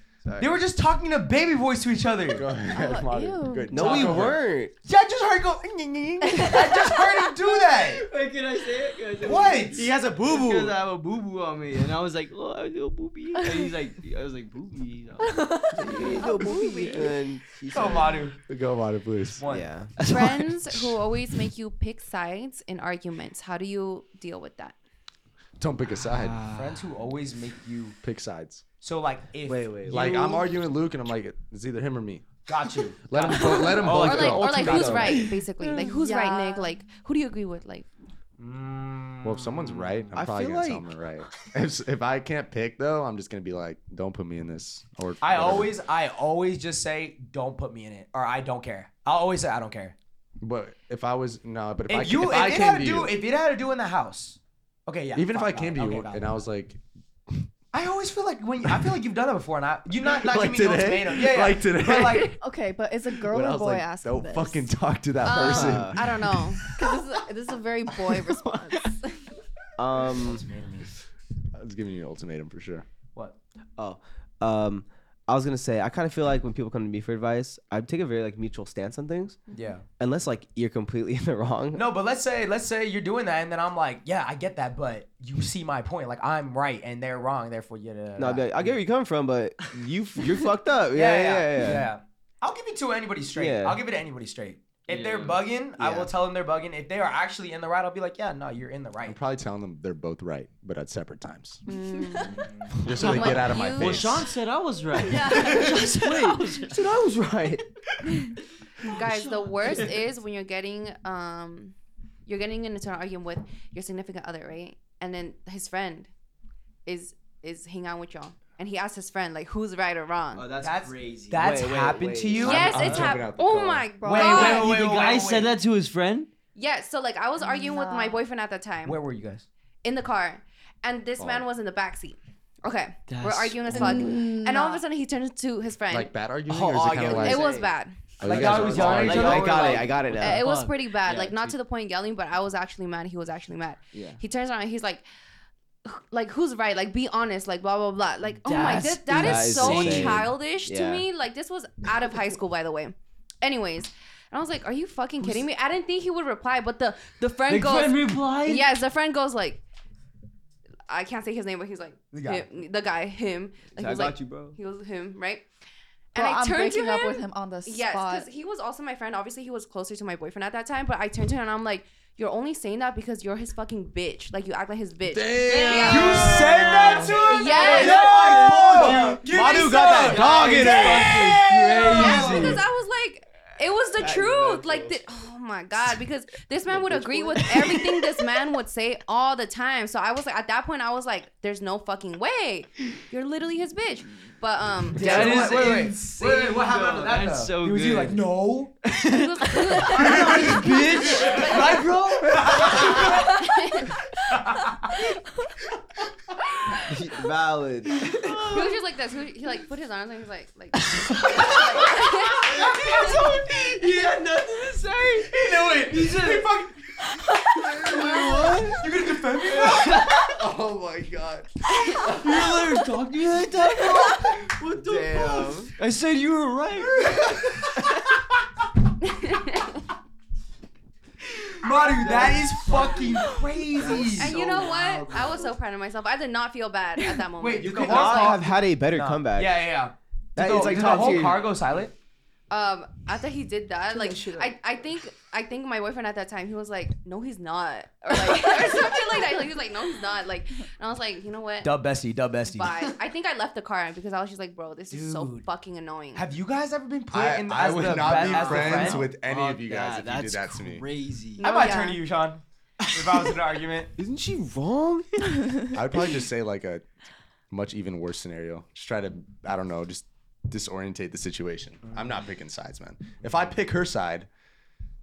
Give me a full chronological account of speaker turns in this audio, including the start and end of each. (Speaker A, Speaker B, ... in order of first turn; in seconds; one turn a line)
Speaker A: 0.3-0.6
Speaker B: 0.4-2.5
Speaker C: 2.3-4.4
Speaker D: 2.6-3.9
Speaker A: 3.7-4.7
Speaker B: 3.7-8.1
Speaker D: 6.3-7.0
Speaker E: 7.8-16.6
Speaker B: 9.2-9.9
Speaker A: 9.9-10.8
Speaker D: 13.4-13.7
Speaker D: 15.2-17.2
Speaker A: 15.7-18.3
Speaker B: 17.7-18.4
Speaker C: 18.5-19.4
Speaker B: 19.4-19.7
Speaker A: 19.5-20.1
Speaker F: 20.0-24.8
Speaker E: 20.0-20.5
Speaker C: 25.6-26.4
Speaker E: 26.0-26.9
Speaker B: 26.5-28.0
Speaker C: 28.0-28.6
Speaker B: 28.8-30.4
Speaker A: 29.5-30.2
Speaker C: 29.9-32.3
Speaker B: 32.5-35.3
Speaker C: 33.0-35.1
Speaker F: 33.6-37.9
Speaker A: 33.7-35.4
Speaker D: 35.7-36.7
Speaker B: 38.4-40.1
Speaker C: 39.2-45.8
Speaker A: 40.1-40.9
Speaker B: 45.2-50.0
Speaker C: 50.4-53.2
Speaker B: 51.9-56.4
Speaker C: 55.1-57.5
Speaker B: 57.7-62.4
Speaker C: 60.0-62.4
Speaker D: 62.3-64.7
Speaker C: 63.2-66.6
Speaker F: 65.2-66.8
Speaker A: 65.3-66.1
Speaker D: 66.7-69.3
Speaker E: 68.5-68.8
Speaker A: 69.8-70.4
Speaker B: 69.9-70.9
Speaker C: 71.5-72.9
Speaker A: 73.8-79.4
Speaker B: 79.5-79.8
Speaker A: 80.0-81.8
Speaker B: 81.7-88.8
Speaker A: 88.2-91.9
Speaker B: 90.9-99.2
Speaker A: 93.4-93.8
Speaker E: 94.9-95.4
Speaker A: 95.8-96.1
Speaker C: 99.0-101.6
Speaker F: 101.7-104.2
Speaker C: 102.8-104.3
Speaker E: 102.9-106.9
Speaker D: 105.0-106.6
Speaker A: 106.6-107.7
Speaker E: 108.2-110.0
Speaker F: 108.8-111.8
Speaker F: 112.3-116.1
Speaker F: 116.9-120.5
Speaker E: 120.3-121.6
Speaker B: 120.6-123.0
Speaker A: 121.4-122.8
Speaker C: 122.4-123.9
Speaker F: 122.4-124.7
Speaker E: 122.8-123.1
Speaker D: 124.0-124.7
Speaker B: 124.0-125.5
Speaker E: 124.2-126.3
Speaker F: 126.5-129.0
Speaker D: 127.4-128.3
Speaker B: 128.8-129.5
Speaker F: 129.8-136.1
Speaker C: 131.2-131.5
Speaker E: 133.1-134.2
Speaker D: 133.7-134.8
Speaker C: 135.9-137.5
Speaker B: 136.9-137.7
Speaker A: 136.9-137.2
Speaker F: 137.1-138.0
Speaker C: 138.2-139.5
Speaker B: 138.2-140.0
Speaker A: 138.3-140.5
Speaker E: 138.5-141.6
Speaker F: 140.2-145.1
Speaker E: 143.9-144.2
Speaker F: 145.8-159.6
Speaker E: 148.4-150.3
Speaker A: 149.1-151.1
Speaker E: 157.5-158.7
Speaker F: 160.9-165.5
Speaker B: 162.1-162.4
Speaker A: 163.7-164.6
Speaker F: 166.1-176.4
Speaker D: 166.2-168.3
Speaker C: 175.1-177.1
Speaker E: 175.7-179.3
Speaker B: 175.7-182.6
Speaker F: 177.2-178.4
Speaker A: 177.9-181.3
Speaker F: 179.4-181.1
Speaker E: 179.8-182.6
Speaker F: 181.9-195.8
Speaker A: 182.0-182.5
Speaker A: 184.0-184.9
Speaker A: 186.7-187.6
Speaker E: 194.9-198.2
Speaker B: 194.9-198.8
Speaker E: 198.8-203.2
Speaker F: 199.0-201.9
Speaker B: 199.8-203.3
Speaker F: 202.5-204.0
Speaker B: 204.3-204.9
Speaker A: 206.9-208.1
Speaker E: 208.0-208.8
Speaker F: 208.3-213.2
Speaker E: 210.9-218.9
Speaker B: 212.6-213.2
Speaker B: 215.3-216.8
Speaker B: 218.7-220.1
Speaker E: 219.5-220.4
Speaker C: 220.2-221.5
Speaker E: 221.8-228.2
Speaker A: 224.7-225.7
Speaker F: 229.0-229.8
Speaker B: 231.6-234.8
Speaker D: 233.2-234.1
Speaker F: 233.9-238.4
Speaker D: 237.0-237.3
Speaker B: 237.4-241.9
Speaker A: 237.7-239.6
Speaker A: 240.4-241.5
Speaker F: 242.5-251.7
Speaker B: 244.0-244.5
Speaker D: 248.2-249.2
Speaker B: 251.6-252.8
Speaker F: 252.5-256.3
Speaker B: 254.9-255.5
Speaker B: 256.1-259.1
Speaker C: 257.1-260.9
Speaker E: 258.0-261.5
Speaker F: 261.4-262.0
Speaker B: 261.4-263.9
Speaker A: 264.0-265.6
Speaker C: 265.7-266.9
Speaker C: 267.5-274.3